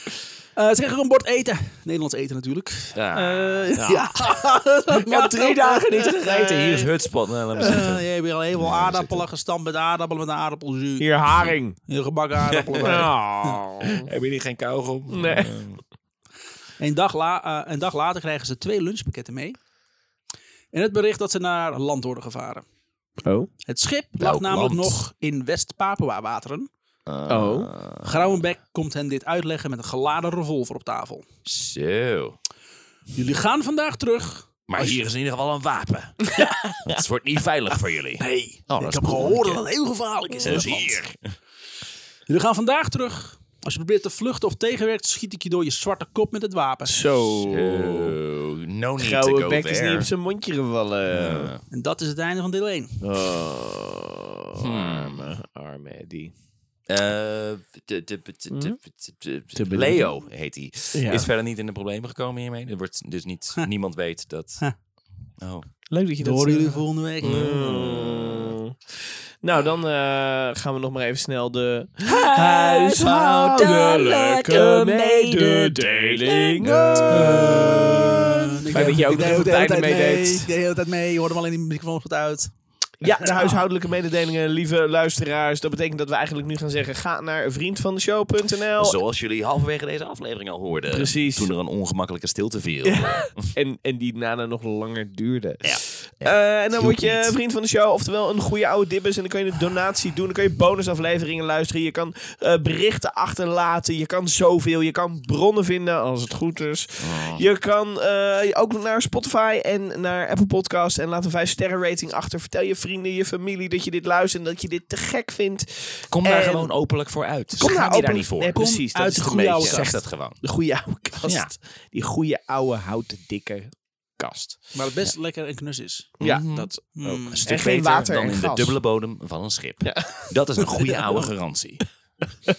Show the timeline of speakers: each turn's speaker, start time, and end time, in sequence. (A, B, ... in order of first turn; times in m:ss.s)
0:00.6-0:06.5 A
0:03.0-0:04.1 B
0:03.8-0:04.1 C
0:04.9-0:09.3 B
0:06.2-0:06.9 C
0:07.6-0:13.6 A
0:11.0-0:11.8 C
0:12.7-0:13.0 B
0:12.8-0:14.1 C
0:14.0-0:15.8 B
0:15.1-0:15.6 C
0:16.8-0:19.6 A
0:20.7-0:22.6 A
0:23.2-0:23.5 C
0:23.7-0:26.7 A
0:24.2-0:25.0 B
0:27.1-0:28.3 B
0:27.3-0:27.7 C
0:28.0-0:31.2 A
0:31.5-0:32.4 B
0:33.2-0:35.0 A
0:34.7-0:36.3 B
0:36.4-0:36.7 A
0:36.8-0:39.6 B
0:38.2-0:41.0 A
0:40.4-0:41.2 B
0:40.4-0:40.7 C
0:42.3-0:47.0 A
0:46.9-0:48.2 C
0:47.4-0:50.1 B
0:49.0-0:51.5 C
0:51.1-0:51.6 B
0:51.7-0:53.0 A
0:53.0-0:56.3 C
0:54.6-0:55.3 B
0:56.9-1:05.7 B
0:58.5-0:58.8 C
0:59.5-1:00.1 C
1:00.9-1:01.3 C
1:05.9-1:18.1 C
1:06.2-1:07.6 A
1:07.2-1:08.5 B
1:12.0-1:18.9 B
1:16.6-1:23.6 A
1:18.7-1:20.5 C
1:23.0-1:29.0 C
1:28.8-1:33.5 B
1:30.9-1:31.5 C
1:32.8-1:56.7 C
1:35.6-1:37.3 B
1:47.0-1:47.4 B
1:56.1-1:58.6 B
1:57.6-2:04.6 C
1:57.6-2:00.0 A
1:59.5-2:00.6 B
2:01.2-2:01.5 B
2:04.7-2:06.2 A
2:06.2-2:08.8 C
2:06.2-2:12.0 B
2:07.0-2:07.5 A
2:09.8-2:11.3 C